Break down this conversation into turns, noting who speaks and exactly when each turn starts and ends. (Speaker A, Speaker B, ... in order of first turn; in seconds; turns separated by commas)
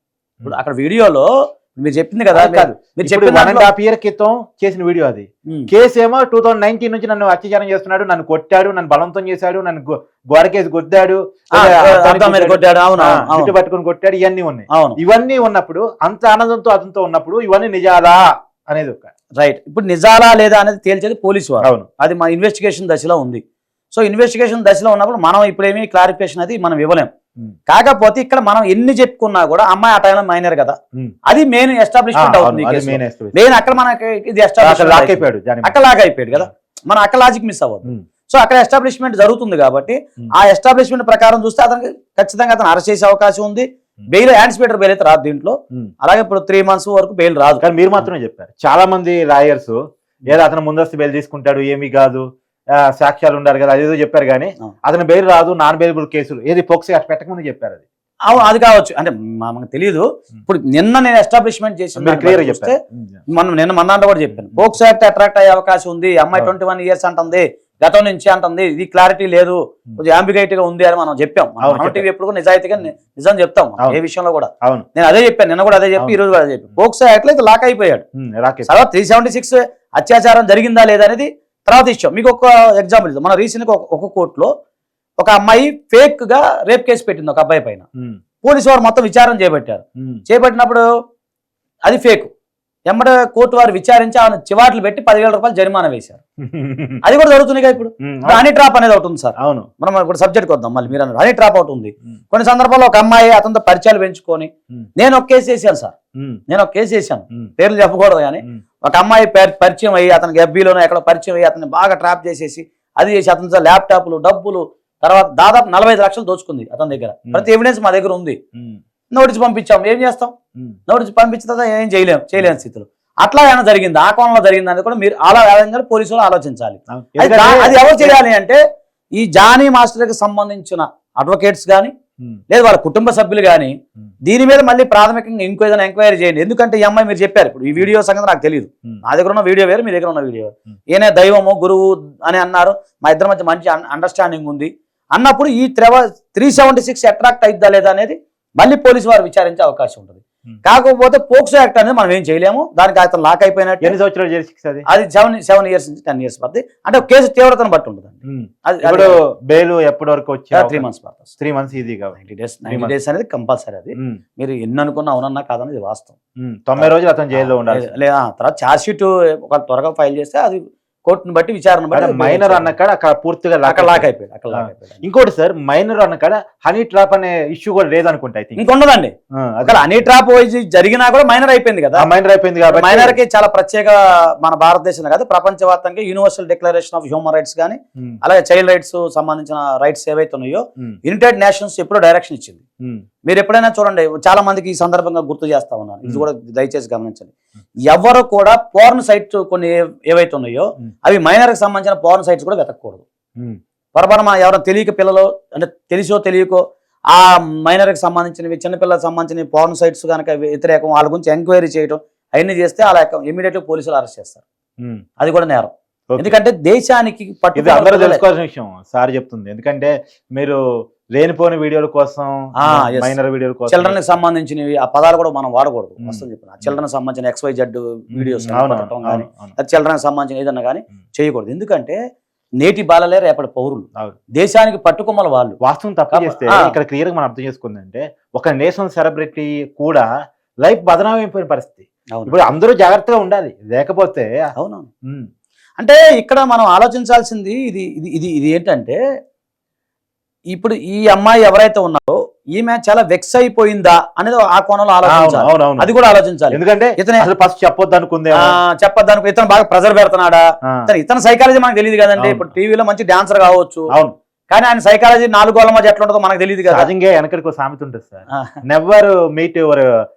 Speaker A: 0.4-3.7, Speaker B: 2.3-19.1, Speaker A: 11.6-13.6, Speaker A: 14.7-15.0, Speaker A: 19.4-27.1, Speaker A: 27.7-48.1, Speaker B: 32.2-33.7, Speaker B: 34.6-35.8, Speaker B: 47.6-52.3, Speaker B: 53.0-57.8, Speaker A: 58.3-62.8, Speaker B: 62.0-63.2, Speaker A: 63.3-78.0, Speaker B: 71.6-72.0, Speaker B: 78.2-78.8, Speaker A: 78.7-84.5, Speaker A: 85.2-87.8, Speaker A: 88.4-90.8, Speaker A: 91.9-92.3, Speaker A: 92.9-96.2, Speaker B: 96.4-97.0, Speaker A: 97.0-105.9, Speaker B: 98.0-98.5, Speaker B: 99.4-99.7, Speaker A: 106.5-118.4, Speaker A: 119.1-120.3, Speaker A: 120.9-128.6, Speaker B: 126.9-128.2, Speaker A: 129.2-131.9, Speaker A: 132.5-154.0, Speaker B: 153.8-154.9, Speaker A: 154.9-159.2, Speaker B: 158.2-160.9, Speaker A: 160.5-161.3, Speaker B: 161.4-162.9, Speaker A: 162.1-166.1, Speaker B: 166.4-167.9, Speaker A: 166.8-172.8, Speaker B: 171.9-178.6, Speaker A: 173.6-175.0, Speaker A: 178.6-179.1, Speaker B: 179.4-180.1, Speaker A: 179.6-182.1, Speaker B: 182.0-183.2, Speaker A: 182.7-192.6, Speaker A: 193.3-197.3, Speaker A: 197.9-203.1, Speaker A: 203.9-214.4, Speaker A: 215.2-218.2, Speaker B: 216.1-216.4, Speaker B: 217.6-220.6, Speaker B: 221.2-224.0, Speaker A: 222.6-223.2, Speaker A: 223.7-232.0, Speaker B: 226.0-226.8, Speaker B: 228.1-229.6, Speaker A: 232.6-233.9, Speaker A: 234.4-235.6, Speaker B: 235.6-240.1, Speaker A: 236.1-236.7, Speaker B: 240.7-244.3, Speaker A: 244.6-244.9, Speaker A: 245.8-249.0, Speaker A: 250.5-257.3, Speaker B: 255.1-255.9, Speaker B: 256.5-258.6, Speaker A: 258.4-263.9, Speaker B: 262.2-262.5, Speaker A: 264.5-266.9, Speaker B: 266.7-269.9, Speaker A: 268.3-268.6